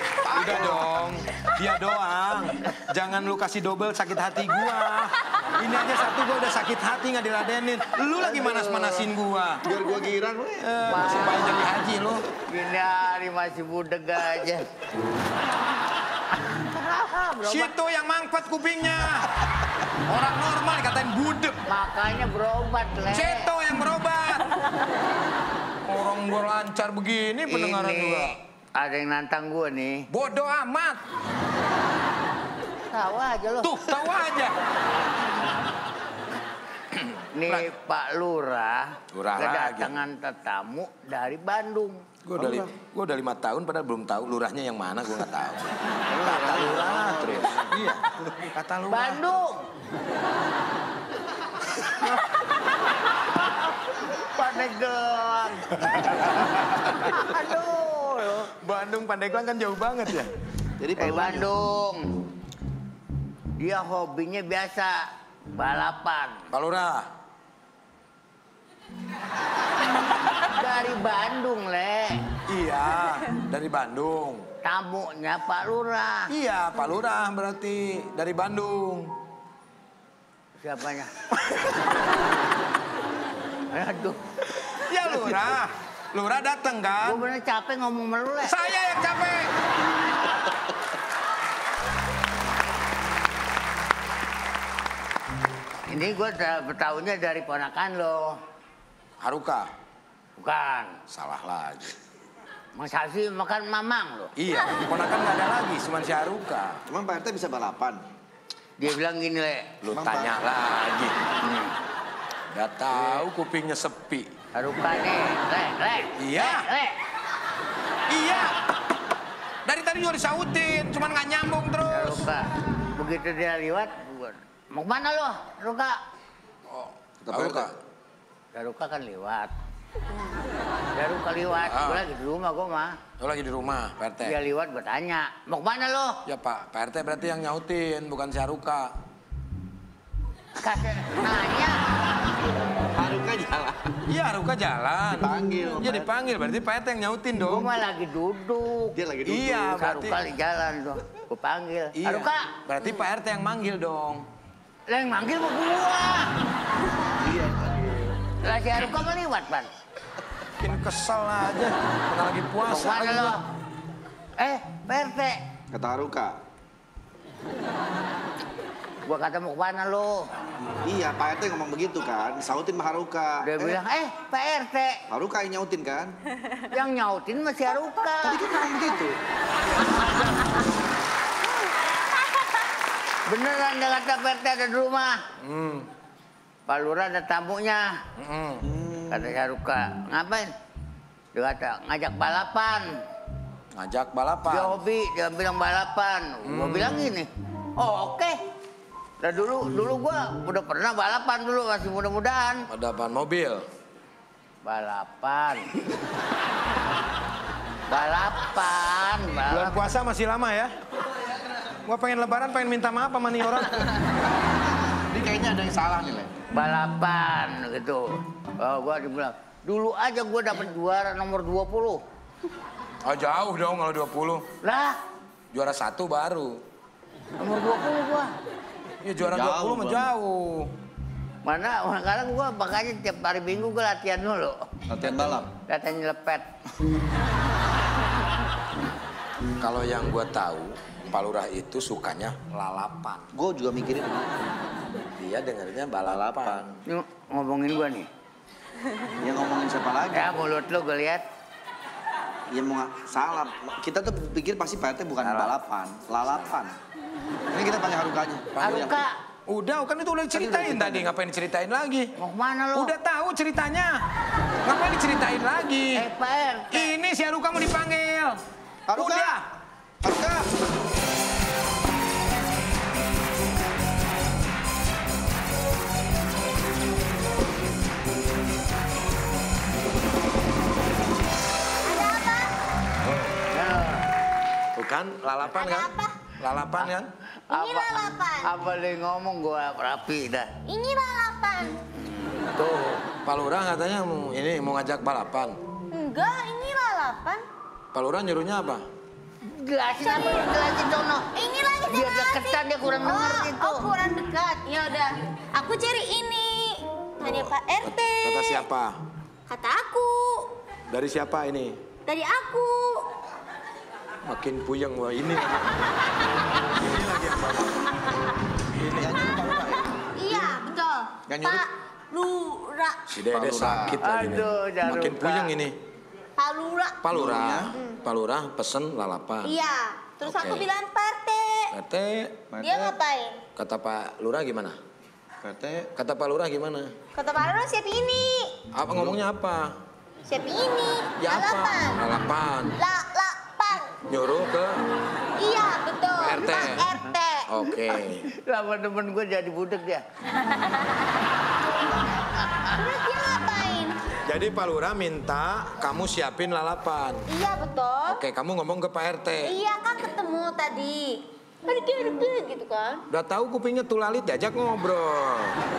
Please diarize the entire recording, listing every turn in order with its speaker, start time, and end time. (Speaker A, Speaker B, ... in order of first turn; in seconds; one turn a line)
Speaker A: 0.2-0.9
Speaker B: 0.3-9.7
Speaker C: 8.2-9.1
Speaker A: 9.7-11.2
Speaker B: 10.6-12.2
Speaker C: 10.8-11.7
Speaker C: 12.5-14.7
Speaker C: 16.5-17.8
Speaker B: 17.4-19.3
Speaker B: 20.1-21.6
Speaker C: 21.7-23.5
Speaker B: 23.1-24.5
Speaker B: 25.8-28.3
Speaker C: 27.5-30.0
Speaker B: 30.1-31.0
Speaker C: 32.9-33.7
Speaker B: 33.6-34.6
Speaker C: 36.9-42.0
Speaker B: 39.1-39.9
Speaker B: 42.2-49.4
Speaker A: 42.4-42.7
Speaker A: 46.1-47.7
Speaker C: 48.9-49.6
Speaker C: 54.2-58.5
Speaker B: 58.6-60.3
Speaker A: 60.8-61.5
Speaker C: 61.0-62.1
Speaker C: 63.6-66.4
Speaker B: 66.5-67.1
Speaker C: 70.4-72.2
Speaker B: 72.5-74.5
Speaker C: 74.6-76.3
Speaker B: 76.3-79.1
Speaker C: 80.6-81.1
Speaker C: 83.7-84.5
Speaker B: 84.6-87.2
Speaker C: 87.0-88.6
Speaker B: 88.4-89.5
Speaker C: 95.9-98.4
Speaker B: 99.2-99.7
Speaker C: 100.4-101.0
Speaker B: 101.1-102.0
Speaker C: 102.8-104.3
Speaker B: 104.4-106.8
Speaker A: 106.9-108.0
Speaker C: 108.8-109.8
Speaker B: 109.8-111.2
Speaker A: 109.9-110.3
Speaker C: 111.4-111.8
Speaker B: 112.5-114.3
Speaker C: 112.9-113.2
Speaker C: 114.5-117.0
Speaker B: 116.2-116.7
Speaker B: 118.1-118.6
Speaker B: 119.6-122.2
Speaker C: 121.9-126.0
Speaker B: 126.7-127.8
Speaker A: 127.2-127.7
Speaker C: 128.5-129.5
Speaker C: 130.9-133.0
Speaker B: 131.7-132.1
Speaker B: 133.2-134.4
Speaker C: 134.2-136.2
Speaker B: 136.2-138.9
Speaker C: 140.6-141.8
Speaker A: 142.8-143.9
Speaker B: 144.1-147.7
Speaker A: 145.1-146.1
Speaker C: 147.5-148.9
Speaker A: 148.9-149.7
Speaker B: 149.2-150.2
Speaker C: 149.7-152.5
Speaker B: 151.9-154.2
Speaker C: 154.9-156.3
Speaker A: 157.2-158.2
Speaker C: 158.4-159.7
Speaker B: 160.6-163.4
Speaker C: 162.6-163.4
Speaker C: 164.4-165.4
Speaker A: 165.7-166.4
Speaker C: 169.1-170.3
Speaker A: 170.8-173.8
Speaker C: 173.4-175.0
Speaker A: 175.1-176.2
Speaker C: 176.6-178.4
Speaker A: 178.2-179.2
Speaker C: 183.2-185.2
Speaker B: 185.4-185.9
Speaker C: 186.7-187.9
Speaker B: 188.2-188.7
Speaker A: 188.6-189.4
Speaker C: 189.1-190.5
Speaker C: 191.3-192.9
Speaker B: 193.7-194.8
Speaker C: 194.5-198.4
Speaker B: 196.4-197.1
Speaker C: 199.2-202.7
Speaker B: 202.7-203.6
Speaker C: 204.6-205.7
Speaker C: 207.9-210.0
Speaker B: 209.5-210.7
Speaker B: 211.8-214.1
Speaker A: 215.1-216.3
Speaker C: 216.5-222.0
Speaker B: 223.0-224.4
Speaker C: 224.6-225.0
Speaker B: 225.5-226.6
Speaker C: 227.4-228.3
Speaker B: 229.0-230.7
Speaker A: 229.3-230.1
Speaker C: 231.4-234.6
Speaker A: 234.9-235.5
Speaker C: 235.7-236.4
Speaker B: 239.6-243.3
Speaker A: 243.3-244.6
Speaker B: 245.2-246.6
Speaker A: 246.1-246.8
Speaker C: 246.9-248.1
Speaker A: 249.2-250.2
Speaker C: 250.1-251.2
Speaker A: 252.5-256.8
Speaker B: 255.2-255.6
Speaker A: 257.5-259.0
Speaker B: 258.6-258.8
Speaker C: 258.6-259.1
Speaker B: 259.5-262.1
Speaker A: 260.3-261.1
Speaker C: 262.2-262.9
Speaker B: 262.7-264.0
Speaker B: 264.6-266.1
Speaker C: 265.9-266.9
Speaker B: 266.7-268.4
Speaker A: 268.9-269.4
Speaker B: 268.9-269.4
Speaker A: 270.0-270.5
Speaker D: 281.9-282.5
Speaker B: 283.0-283.4
Speaker C: 283.5-284.1
Speaker B: 284.8-287.1
Speaker D: 285.5-286.2
Speaker C: 287.5-290.5
Speaker D: 287.5-288.5
Speaker D: 290.6-291.8
Speaker C: 292.0-293.0
Speaker B: 293.2-295.6
Speaker D: 295.9-297.4
Speaker B: 297.9-298.9
Speaker C: 299.4-301.3
Speaker D: 300.0-300.6
Speaker D: 301.3-308.6
Speaker C: 301.8-303.9
Speaker B: 307.2-308.9
Speaker D: 309.5-310.6
Speaker B: 310.9-311.8
Speaker D: 312.1-313.1
Speaker B: 314.2-315.9
Speaker B: 316.7-317.8
Speaker B: 318.7-319.2
Speaker A: 319.0-320.6
Speaker D: 320.2-323.0
Speaker A: 321.3-321.7
Speaker B: 323.1-325.8
Speaker A: 323.3-324.0
Speaker C: 324.0-325.5
Speaker D: 326.4-327.1
Speaker B: 327.0-329.6
Speaker A: 327.1-327.8
Speaker D: 329.4-331.7
Speaker B: 330.2-330.7
Speaker B: 331.7-332.4
Speaker A: 332.5-333.0
Speaker D: 332.6-333.4
Speaker B: 333.6-334.8
Speaker A: 335.4-335.9
Speaker B: 336.0-336.9
Speaker D: 337.1-338.6
Speaker B: 338.7-339.7
Speaker D: 340.2-342.0
Speaker B: 341.2-342.8
Speaker D: 342.8-343.9
Speaker B: 344.0-344.8
Speaker D: 345.4-347.5
Speaker B: 346.1-346.9
Speaker B: 347.5-348.3
Speaker C: 348.4-350.0
Speaker C: 352.2-352.9
Speaker D: 352.8-354.0
Speaker B: 354.2-357.2
Speaker D: 357.3-358.2
Speaker B: 358.1-359.6
Speaker D: 359.4-363.0
Speaker B: 363.1-365.6